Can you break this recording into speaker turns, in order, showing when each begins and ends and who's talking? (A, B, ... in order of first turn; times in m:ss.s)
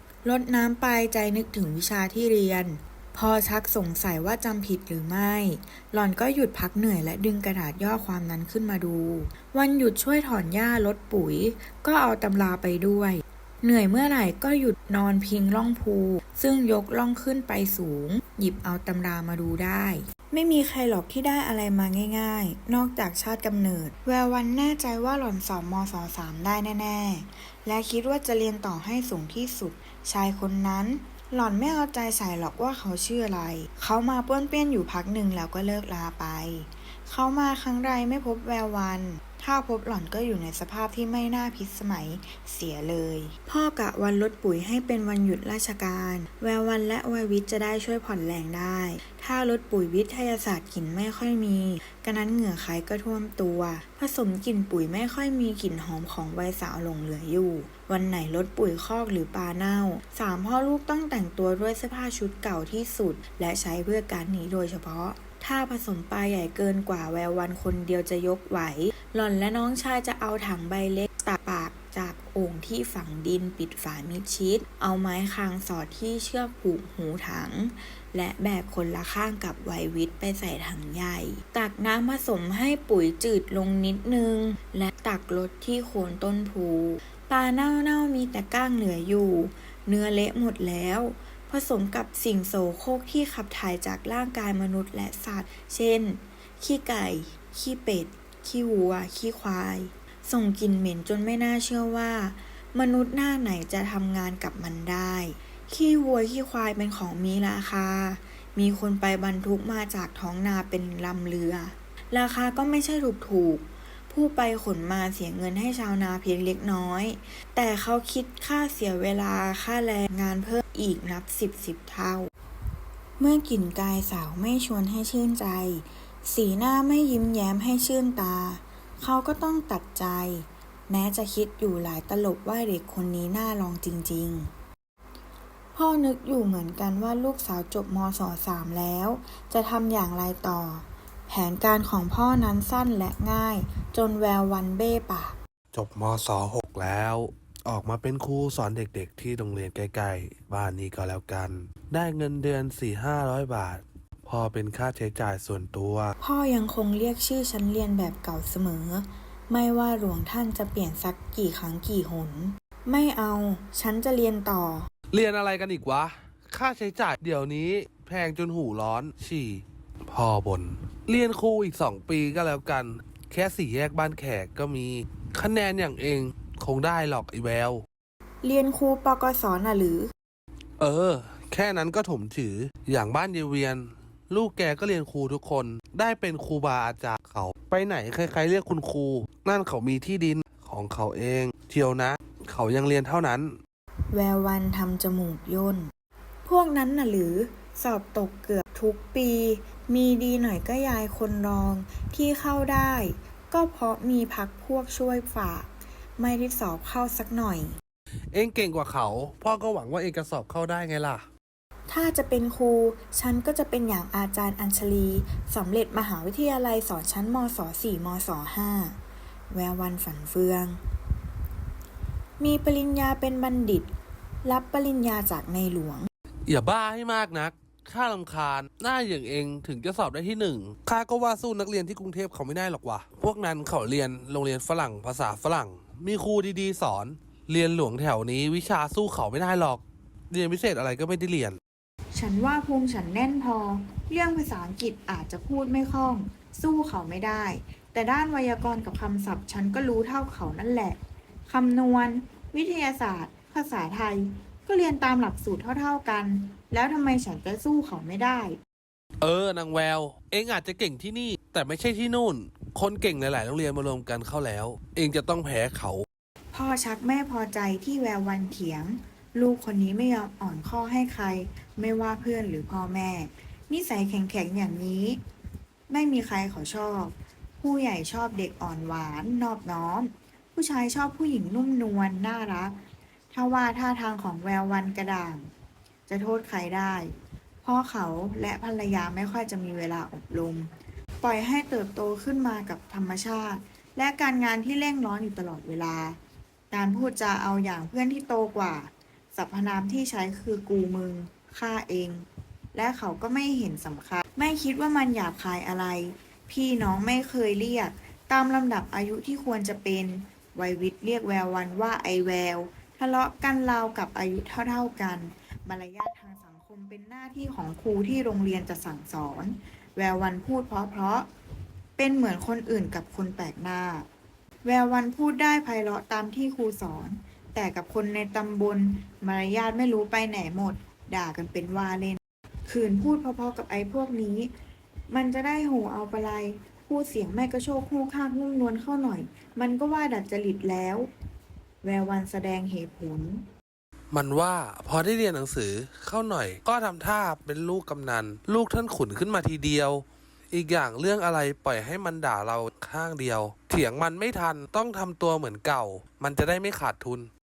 0:00.2-2:02.3 A
2:03.2-2:14.5 A
2:15.7-2:25.4 A
2:25.7-2:36.1 B
2:36.2-2:44.9 A
2:45.1-2:57.8 B
2:58.4-3:00.1 A
3:00.8-3:13.6 B
3:14.1-3:15.9 A
3:16.4-3:27.7 A
3:28.3-3:31.3 B
3:31.9-3:39.0 A
3:39.5-3:40.8 A
3:42.4-3:43.9 A
3:44.4-3:46.1 A
3:46.5-4:01.6 B
4:02.1-4:18.6 A
4:19.2-4:26.0 B
4:26.5-4:35.2 A
4:35.9-4:42.8 A
4:43.3-4:45.5 A
4:46.1-4:47.1 A
4:47.6-4:50.7 A
4:51.2-4:56.2 A
4:56.7-5:21.3 A
5:22.0-5:24.0 A
5:24.6-5:34.5 A
5:35.1-5:41.1 A
5:41.8-5:43.4 A
5:44.1-5:57.3 B